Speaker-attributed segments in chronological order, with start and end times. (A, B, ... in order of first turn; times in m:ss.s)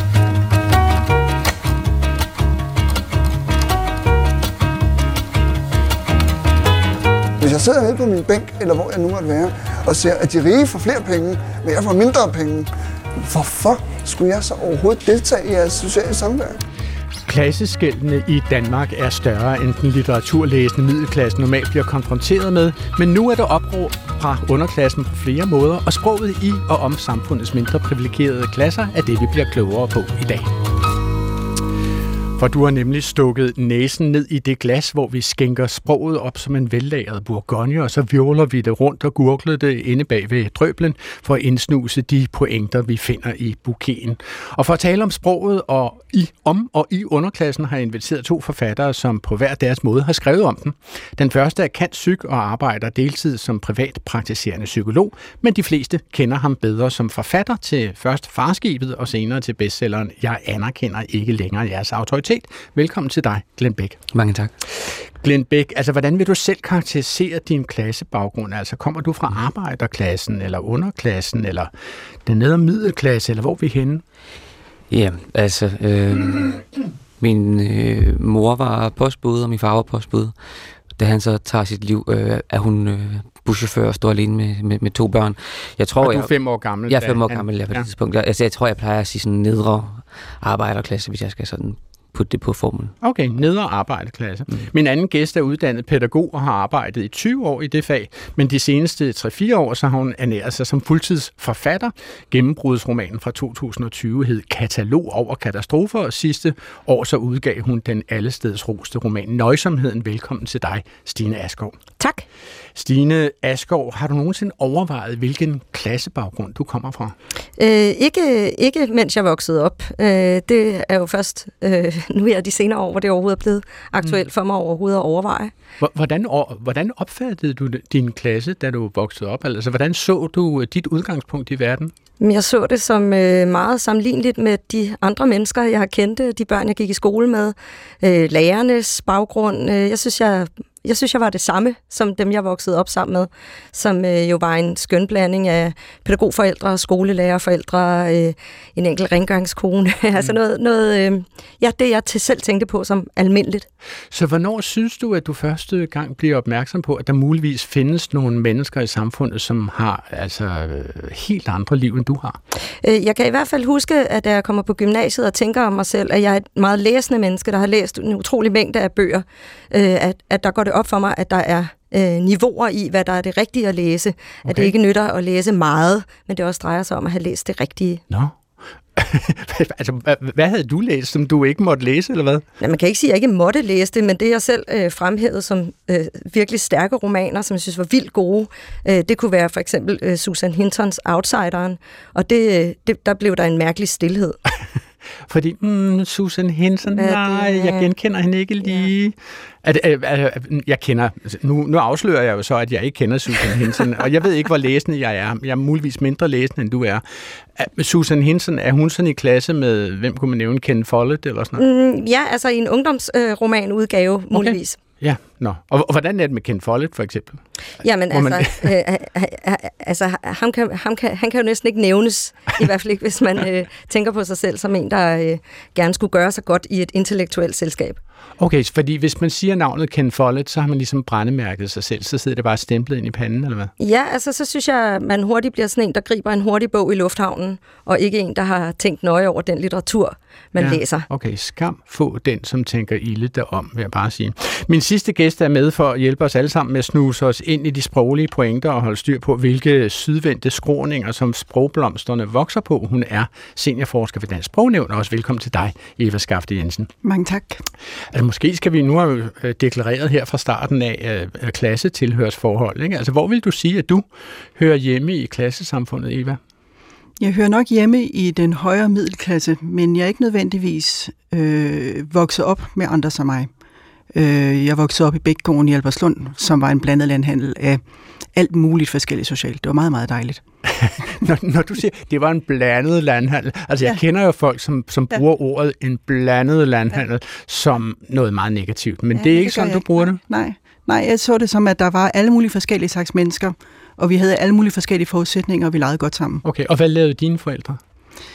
0:07.4-0:16.6 A
0:17.3-0:30.5 B
0:32.4-1:04.0 B
1:04.1-1:04.5 C
1:04.8-1:11.7 B
1:12.2-1:14.0 B
1:14.9-1:16.6 C
1:17.2-1:20.3 C
1:21.0-1:26.3 C
1:26.0-1:27.9 B
1:26.9-1:32.9 C
1:33.0-1:51.8 B
1:52.8-1:57.2 B
1:57.6-2:05.5 D
2:05.8-2:11.9 B
2:12.2-2:33.7 D
2:34.1-2:42.4 B
2:42.8-2:58.0 D
2:54.5-2:54.7 B
2:58.1-2:58.4 B
2:59.0-3:02.4 B
3:02.6-3:14.4 D
3:15.3-3:27.0 B
3:17.0-3:17.9 D
3:27.6-3:31.6 B
3:31.6-3:34.8 D
3:34.3-3:37.4 B
3:37.8-3:48.0 D
3:38.1-3:38.7 B
3:48.4-3:53.7 B
3:53.8-4:01.1 D
4:00.6-4:16.9 B
4:17.0-4:17.6 E
4:18.1-4:26.4 B
4:27.2-4:33.5 E
4:34.1-4:37.8 E
4:38.4-4:40.4 E
4:40.7-4:50.2 B
4:49.2-4:56.4 E
4:56.4-4:57.8 B